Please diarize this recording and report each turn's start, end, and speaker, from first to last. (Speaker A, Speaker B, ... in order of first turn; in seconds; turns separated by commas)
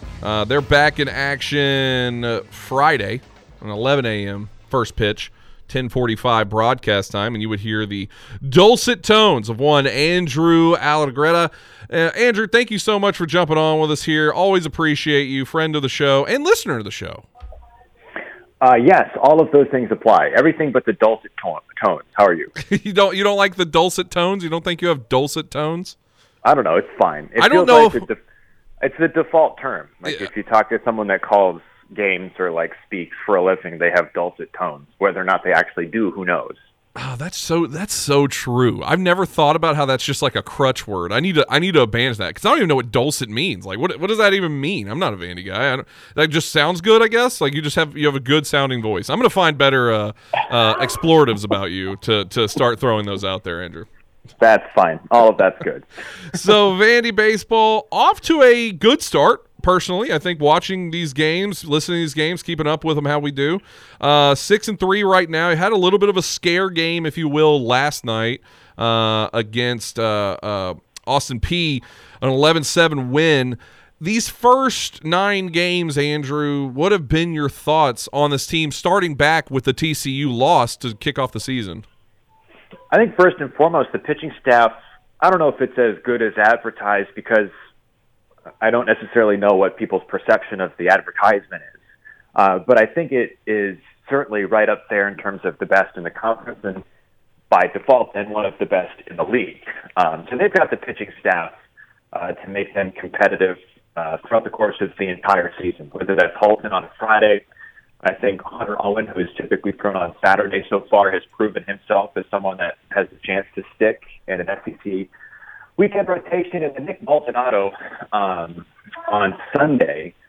Speaker A: 0.2-17.3, Speaker B: 18.6-22.5, Speaker A: 22.6-26.0, Speaker B: 26.4-28.2, Speaker A: 27.4-28.1, Speaker B: 28.8-36.6, Speaker A: 37.0-53.9, Speaker B: 54.4-55.9, Speaker A: 56.3-81.8, Speaker B: 82.9-87.5, Speaker B: 88.6-91.8, Speaker B: 92.3-96.8, Speaker B: 97.5-101.5, Speaker B: 102.1-107.4, Speaker B: 108.0-115.1, Speaker B: 115.8-120.1